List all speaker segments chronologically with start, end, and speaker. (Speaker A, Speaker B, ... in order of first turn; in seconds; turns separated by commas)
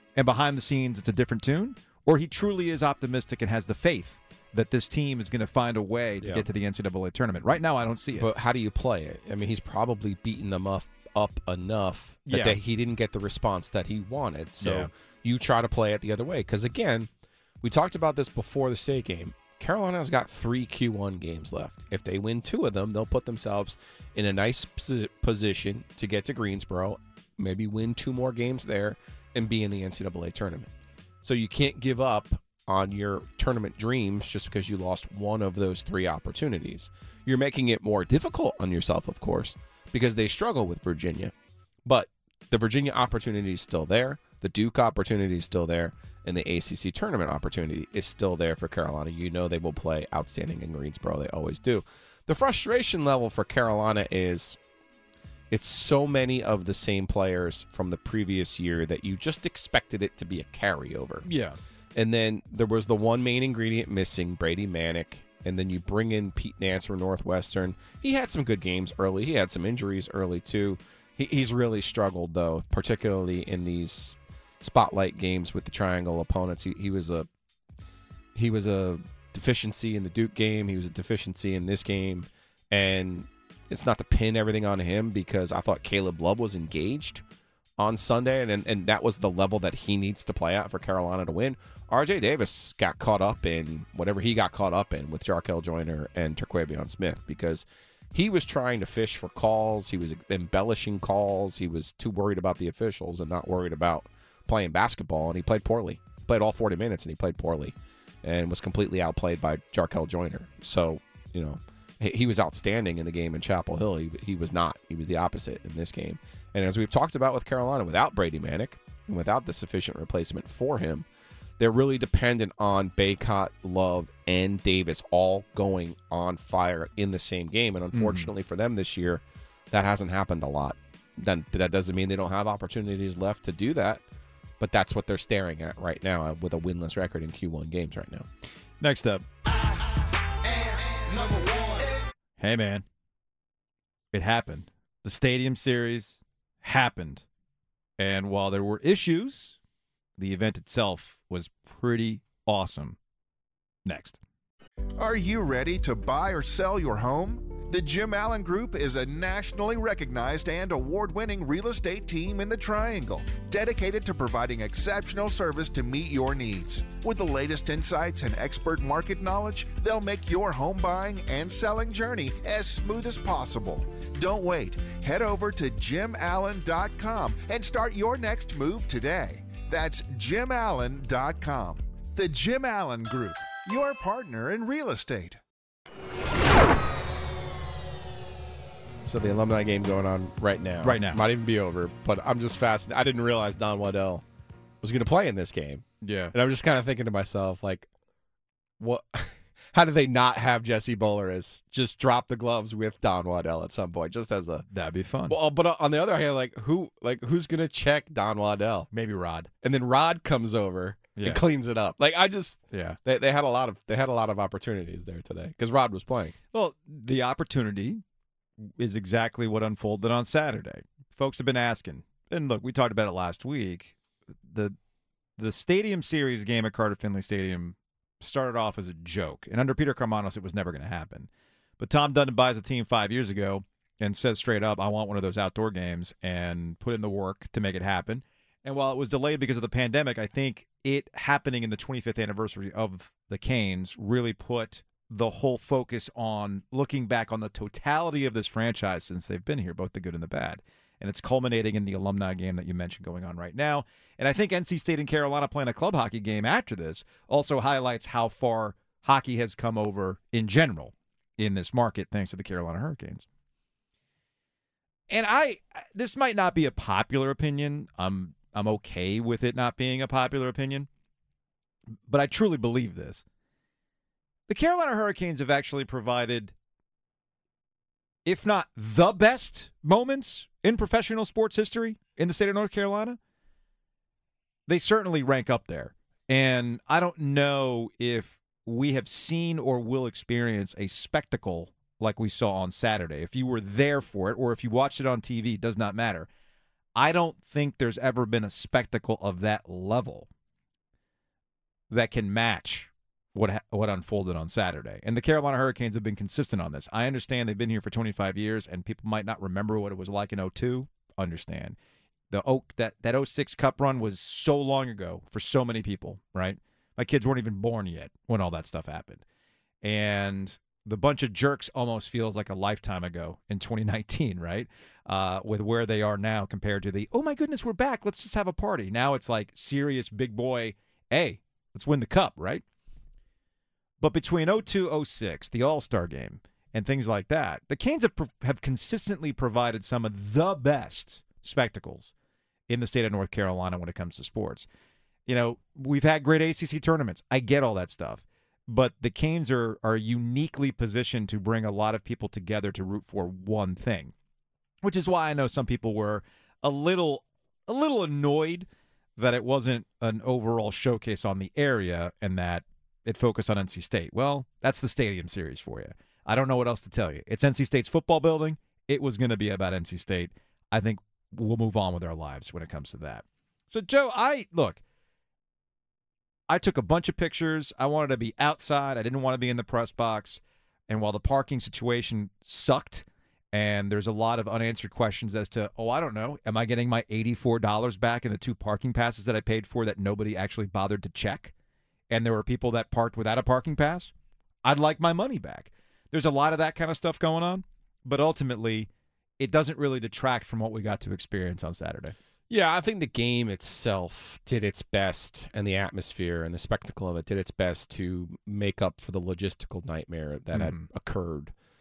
Speaker A: 0.1-8.3, Speaker B: 8.2-17.1, Speaker A: 12.3-12.6, Speaker A: 14.6-14.9, Speaker B: 17.6-30.7, Speaker B: 31.2-41.3, Speaker B: 41.9-54.6, Speaker B: 55.5-61.3, Speaker A: 61.2-61.6, Speaker B: 62.0-77.3, Speaker B: 78.3-87.2, Speaker B: 87.8-121.1, Speaker B: 121.6-134.0, Speaker A: 127.9-128.3, Speaker B: 134.6-138.3, Speaker A: 138.8-139.3, Speaker A: 142.4-142.9, Speaker A: 144.1-147.3, Speaker A: 148.0-149.6, Speaker A: 150.2-153.0, Speaker A: 153.8-154.2, Speaker C: 155.0-185.4, Speaker B: 189.0-194.2, Speaker A: 190.8-191.2, Speaker B: 194.8-197.9, Speaker A: 196.0-196.3, Speaker B: 198.8-204.7, Speaker A: 204.7-205.4, Speaker B: 205.3-208.9, Speaker A: 208.9-209.5, Speaker B: 209.6-216.4, Speaker A: 211.2-211.4, Speaker A: 212.7-213.0, Speaker A: 216.5-218.0, Speaker A: 218.6-224.8, Speaker A: 225.4-263.3, Speaker A: 265.1-270.9, Speaker A: 272.1-273.2, Speaker A: 274.5-276.6, Speaker A: 278.2-283.2, Speaker A: 284.7-296.3, Speaker A: 297.0-300.3, Speaker A: 301.9-311.8, Speaker A: 312.3-319.2, Speaker A: 319.8-332.6, Speaker A: 334.0-342.1, Speaker A: 342.7-344.7, Speaker A: 345.3-354.1, Speaker A: 354.8-374.8, Speaker A: 376.5-391.5, Speaker A: 392.1-394.1, Speaker A: 394.6-402.1, Speaker B: 402.5-411.5, Speaker A: 410.5-410.9